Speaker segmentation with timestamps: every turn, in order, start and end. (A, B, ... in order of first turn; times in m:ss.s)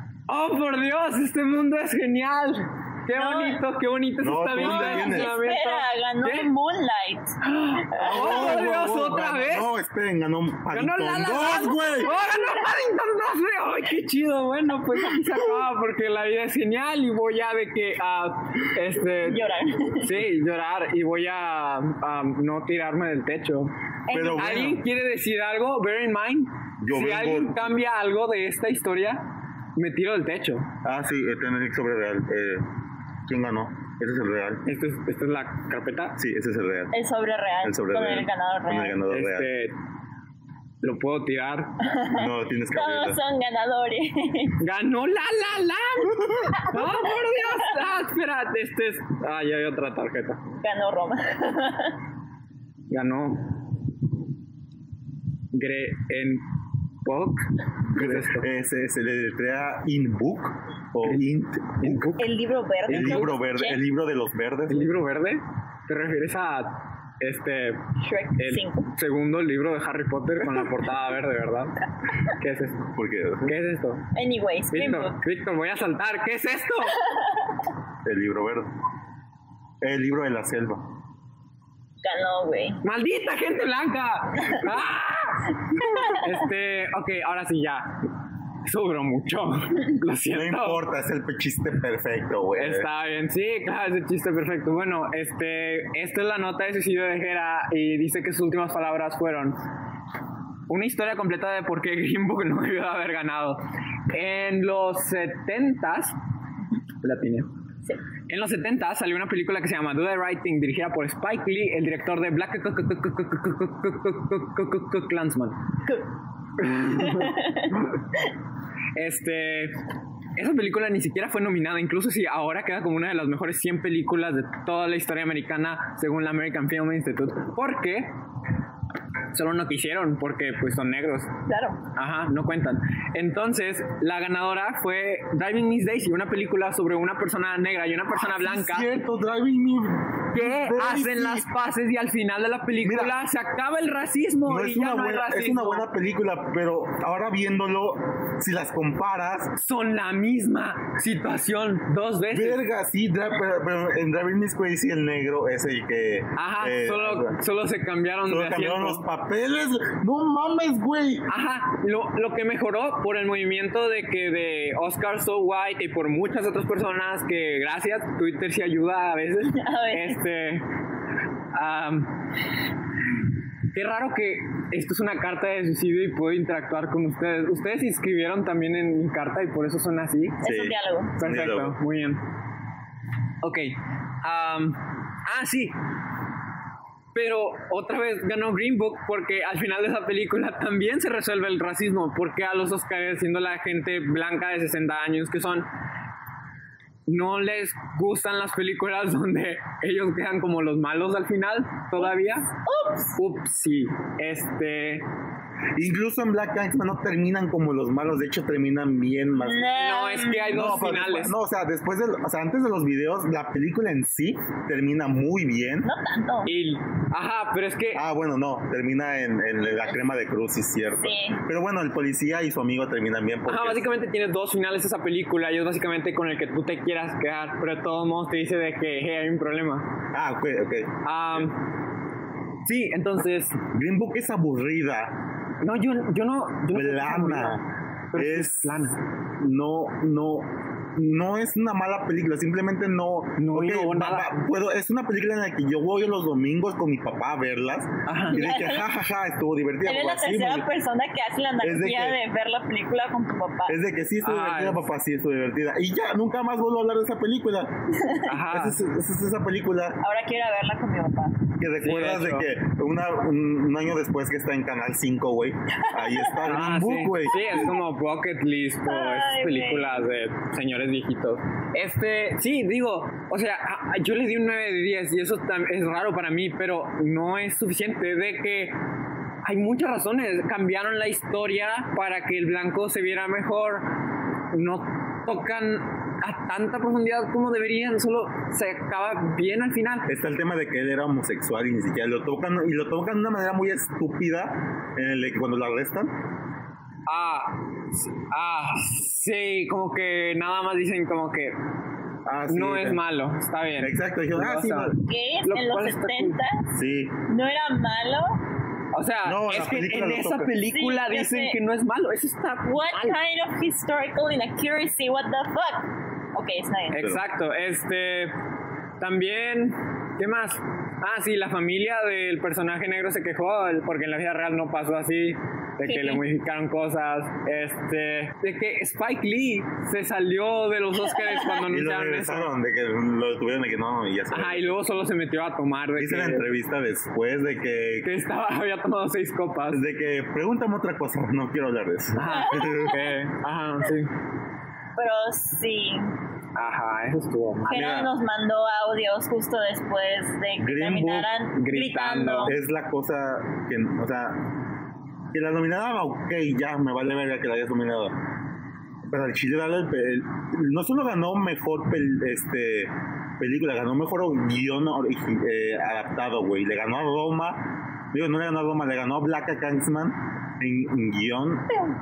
0:00.3-0:06.5 A
0:03.2-0:03.6 B
0:04.2-0:05.4 C
0:04.6-0:07.4 B
0:07.4-0:09.7 A
0:07.9-0:08.7 B
0:08.0-0:12.2 C
0:10.7-0:19.4 A
0:19.2-0:20.2 B
0:20.0-0:23.7 A
0:24.1-0:24.5 B
0:24.1-0:24.8 C
0:24.3-0:29.2 A
0:26.8-0:27.7 C
0:29.8-0:30.7 A
0:30.8-0:32.7 C
0:33.3-0:34.6 C
0:34.7-0:36.2 A
0:36.2-0:36.9 C
0:36.9-0:39.0 B
0:37.6-0:39.5 C
0:39.1-0:39.8 A
0:40.8-0:41.7 A
0:41.8-0:44.6 B
0:42.1-0:43.2 C
0:44.6-0:50.4 A
0:50.5-0:52.0 B
0:52.9-0:53.5 A
0:55.5-0:56.4 A
0:57.0-0:58.5 A
0:57.9-1:02.2 C
1:01.8-1:02.3 A
1:02.2-1:03.8 B
1:02.9-1:03.4 A
1:02.9-1:04.9 C
1:04.7-1:07.8 A
1:08.0-1:08.9 B
1:08.4-1:11.7 A
1:12.3-1:12.9 A
1:13.0-1:13.6 C
1:13.4-1:14.0 A
1:14.2-1:15.2 B
1:14.7-1:17.0 A
1:17.0-1:17.5 B
1:18.0-1:18.7 C
1:19.8-1:20.9 C
1:22.0-1:22.8 B
1:22.8-1:27.9 A
1:25.9-1:26.1 B
1:28.6-1:30.8 A
1:30.3-1:32.9 C
1:32.6-1:39.6 A
1:40.7-1:46.2 A
1:47.0-1:47.5 A
1:48.3-1:55.6 A
1:56.6-1:57.9 A
1:56.8-1:57.9 B
1:59.0-1:59.8 A
2:00.4-2:08.1 A
2:09.3-2:11.3 A
2:11.5-2:11.8 B
2:12.0-2:19.0 A
2:18.2-2:21.5 C
2:20.3-2:25.9 A
2:22.8-2:23.2 C
2:24.5-2:29.6 C
2:29.6-2:32.6 A
2:32.3-2:37.4 C
2:36.4-2:39.0 A
2:38.3-2:41.3 C
2:41.3-2:50.6 A
2:49.5-2:50.2 B
2:51.6-2:52.1 A
2:53.7-3:00.4 A
3:00.4-3:01.2 B
3:00.4-3:01.8 C
3:01.2-3:02.2 A
3:03.4-3:05.8 A
3:07.1-3:15.7 A
3:17.1-3:22.5 A
3:22.6-3:23.2 B
3:23.2-3:25.0 A
3:25.8-3:29.7 C
3:29.4-3:30.5 B
3:29.7-3:31.4 A
3:30.5-3:35.9 C
3:35.8-3:36.5 B
3:36.4-3:38.0 A
3:37.9-3:43.8 C
3:41.0-3:41.4 B
3:43.5-3:49.9 A
3:50.1-3:51.5 C
3:51.0-3:51.6 A
3:52.6-3:53.6 A
3:53.6-3:55.2 C
3:55.6-3:57.6 A
3:56.7-3:57.6 C
3:58.1-3:59.0 A
3:58.2-3:58.8 C
3:59.4-4:10.7 C
4:03.4-4:04.4 A
4:08.1-4:08.4 A
4:08.3-4:08.9 B
4:09.8-4:13.8 B
4:11.6-4:12.2 C
4:13.7-4:17.8 C
4:14.2-4:14.8 A
4:18.0-4:18.3 B
4:18.3-4:18.8 A
4:18.5-4:20.0 C
4:20.0-4:21.4 B
4:21.6-4:27.7 C
4:21.8-4:22.5 A
4:25.9-4:26.5 B
4:26.5-4:38.8 A
4:27.3-4:27.7 B
4:28.9-4:30.0 B
4:39.4-4:43.9 A
4:44.5-4:50.1 A
4:50.1-4:56.2 C
4:57.1-5:01.6 A
5:02.3-5:03.0 C
5:02.5-5:05.0 A
5:03.8-5:05.0 C
5:05.0-5:06.7 B
5:05.5-5:06.4 A
5:06.8-5:07.2 C
5:07.3-5:08.4 B
5:08.9-5:13.2 A
5:09.2-5:10.5 C
5:10.7-5:11.6 B
5:12.7-5:17.0 B
5:16.9-5:18.4 A
5:19.0-5:32.5 A
5:25.8-5:26.2 B
5:31.6-5:34.8 C
5:34.3-5:36.5 A
5:36.0-5:38.1 C
5:38.0-5:39.8 A
5:39.7-5:43.0 C
5:42.2-5:44.1 A
5:42.3-5:43.0 B
5:45.0-5:46.2 B
5:46.6-5:47.9 A
5:47.7-5:52.6 B
5:47.7-5:48.1 C
5:50.6-5:51.3 C
5:51.5-5:52.6 A
5:52.4-5:54.5 C
5:55.3-5:58.2 C
5:59.1-6:11.7 C